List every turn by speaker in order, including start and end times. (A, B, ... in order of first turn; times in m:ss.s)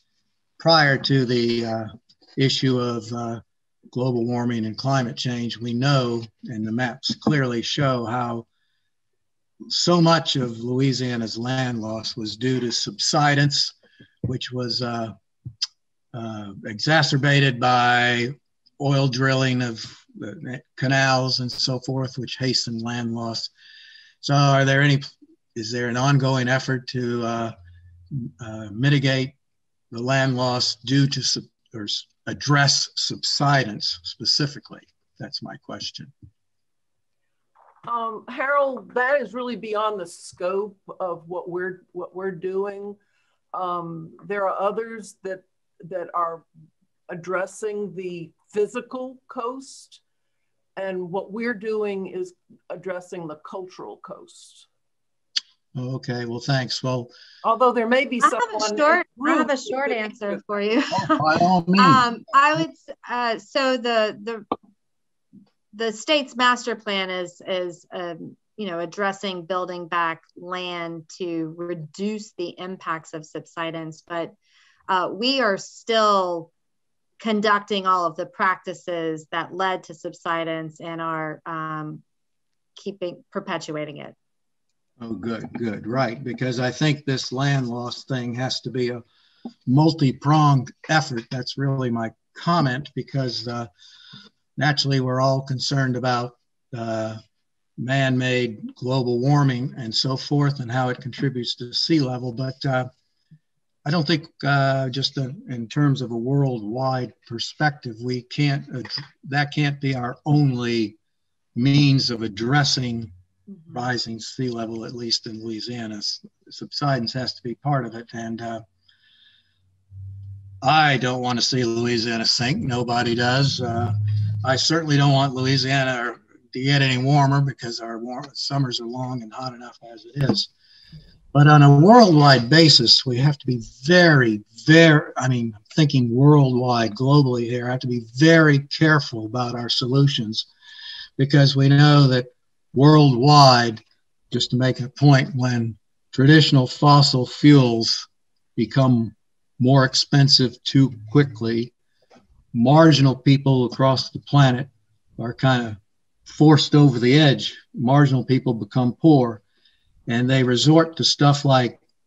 0:00.6-0:08.5 A
0:09.7-0:13.8 A
0:14.3-0:15.2 A
0:16.1-0:23.5 A
0:24.2-0:27.6 A
0:28.1-0:29.4 A
0:29.9-0:36.1 A
0:37.9-0:43.0 B
0:43.5-0:46.4 B
0:47.1-0:50.0 B
0:50.8-0:54.7 B
0:55.8-0:57.1 A
0:57.4-1:00.1 B
0:58.2-1:04.5 C
1:01.0-1:02.1 A
1:05.7-1:14.3 C
1:14.9-1:16.5 C
1:17.2-1:22.0 C
1:22.8-1:24.2 C
1:25.0-1:29.0 A
1:29.7-1:33.7 A
1:34.6-1:37.2 A
1:37.8-1:42.9 A
1:43.8-1:51.0 A
1:51.6-1:53.1 A
1:53.7-1:58.6 A
2:00.6-2:10.5 A
2:11.3-2:20.5 A
2:21.2-2:31.7 A
2:32.5-2:39.4 A
2:40.1-2:41.8 A